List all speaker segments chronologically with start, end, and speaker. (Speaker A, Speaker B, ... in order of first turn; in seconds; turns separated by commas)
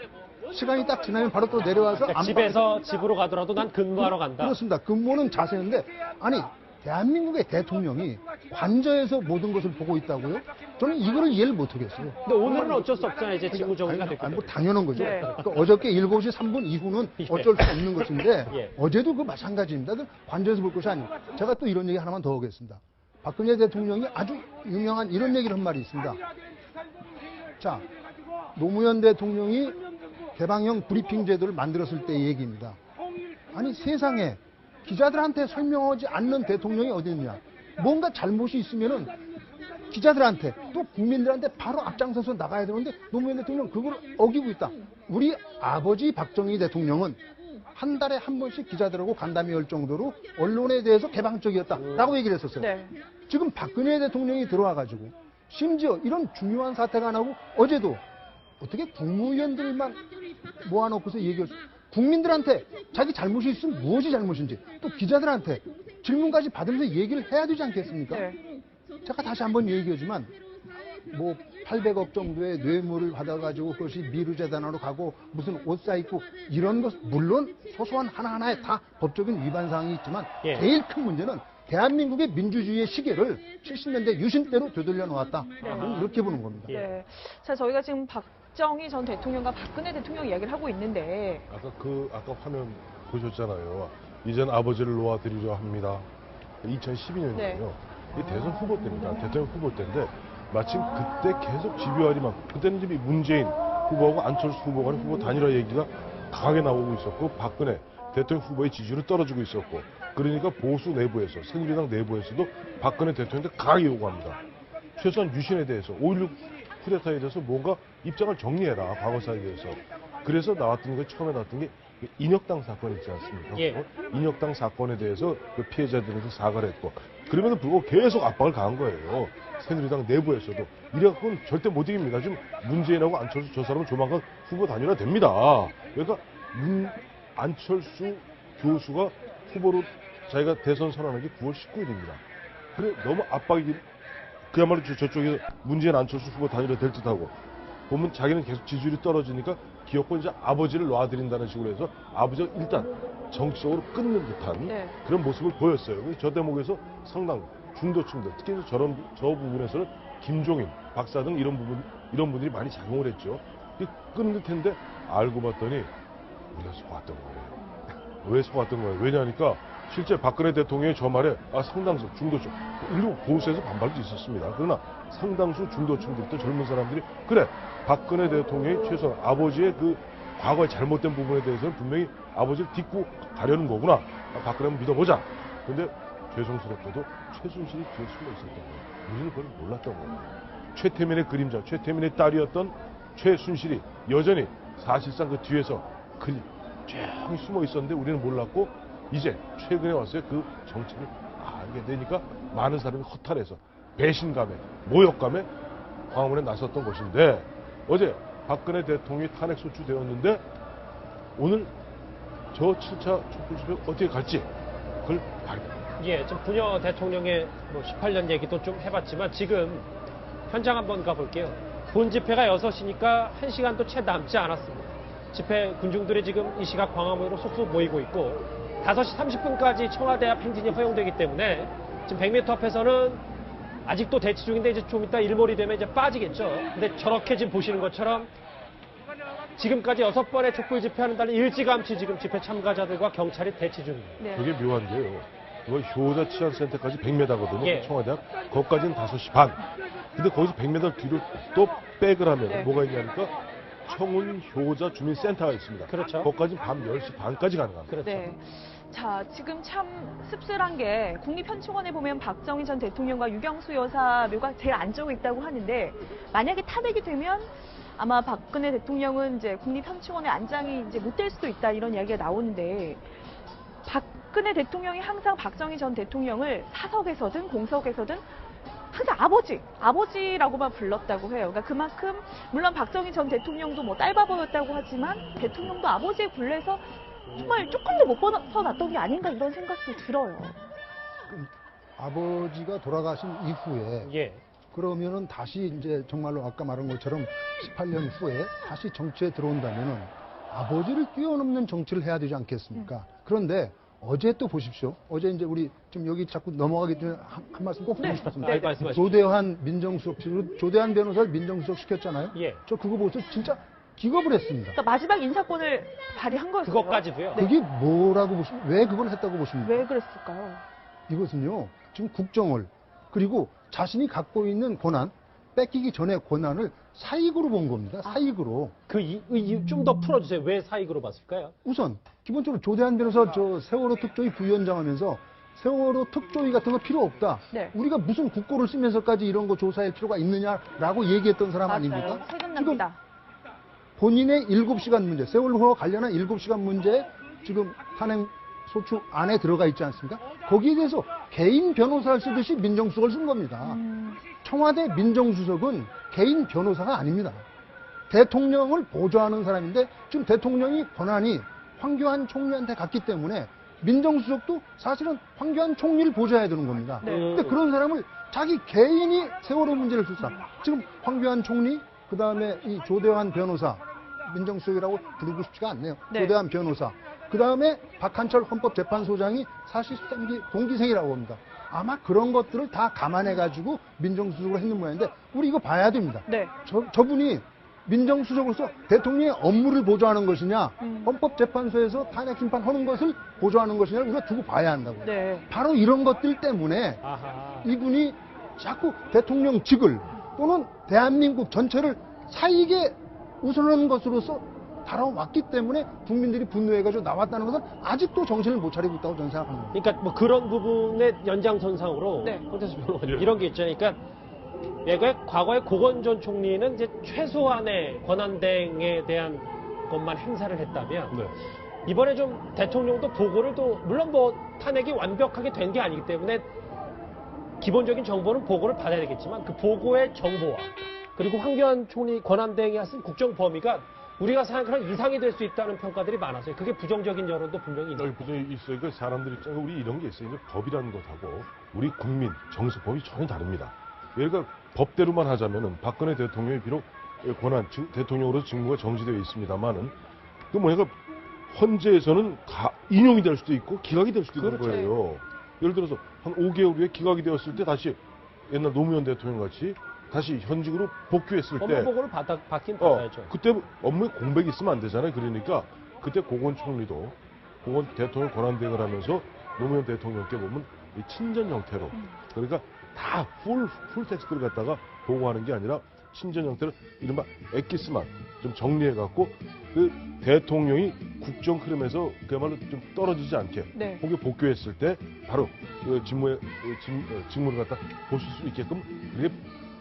Speaker A: 0.5-2.6, Speaker B: 1.9-4.6, Speaker A: 4.0-26.2, Speaker B: 12.2-15.7, Speaker C: 14.9-15.3, Speaker B: 17.2-18.7, Speaker A: 27.6-27.8, Speaker A: 28.5-29.8, Speaker A: 30.3-32.8, Speaker A: 33.5-39.2, Speaker A: 39.9-47.2, Speaker A: 47.7-52.7, Speaker B: 51.8-52.1, Speaker C: 52.6-53.0, Speaker A: 53.2-58.0, Speaker A: 58.6-60.0, Speaker A: 60.6-68.3, Speaker C: 68.1-68.4, Speaker A: 69.0-70.3, Speaker A: 71.1-86.7, Speaker B: 80.4-80.7, Speaker B: 85.6-86.1, Speaker C: 85.6-91.4, Speaker B: 86.7-86.9, Speaker D: 91.5-96.1, Speaker D: 96.6-114.4, Speaker C: 97.3-97.6, Speaker D: 115.0-142.2, Speaker B: 123.5-123.8, Speaker D: 142.7-143.8, Speaker D: 144.5-147.3, Speaker D: 147.9-165.9, Speaker C: 154.6-154.9, Speaker D: 166.5-205.5, Speaker D: 206.1-210.4, Speaker D: 211.3-211.7, Speaker D: 212.5-214.5, Speaker D: 215.0-215.8, Speaker B: 216.0-219.9, Speaker B: 220.5-233.2, Speaker B: 233.8-238.3, Speaker B: 239.6-244.3, Speaker C: 244.2-244.5, Speaker D: 244.3-258.0, Speaker B: 247.6-247.9, Speaker B: 255.9-256.3, Speaker B: 257.9-258.3, Speaker C: 258.0-273.0, Speaker C: 273.8-278.2, Speaker C: 278.9-290.6, Speaker B: 287.3-287.6, Speaker A: 291.3-294.1, Speaker B: 294.0-294.4, Speaker A: 294.7-314.8, Speaker C: 308.0-308.7, Speaker B: 308.0-309.3, Speaker B: 312.3-312.6, Speaker C: 314.7-317.5, Speaker B: 316.6-317.4, Speaker A: 317.3-319.9, Speaker C: 319.6-320.6, Speaker A: 321.1-328.7, Speaker B: 328.9-331.5, Speaker A: 331.6-342.9, Speaker C: 341.7-343.0, Speaker A: 344.0-353.8, Speaker C: 353.6-354.2, Speaker A: 354.3-357.4, Speaker A: 358.1-397.0, Speaker C: 367.0-367.3, Speaker B: 367.0-367.6, Speaker C: 386.3-386.5, Speaker C: 390.8-391.1, Speaker C: 395.0-395.4, Speaker B: 397.0-397.7, Speaker A: 397.6-409.8, Speaker B: 409.7-414.0, Speaker B: 414.8-421.1, Speaker D: 421.1-421.3, Speaker B: 421.8-426.5, Speaker B: 427.6-438.3, Speaker D: 437.9-449.9, Speaker D: 450.5-450.9, Speaker D: 451.5-461.9, Speaker B: 454.4-454.8, Speaker C: 454.6-454.9, Speaker B: 461.6-463.3, Speaker D: 462.8-489.4, Speaker C: 483.7-484.0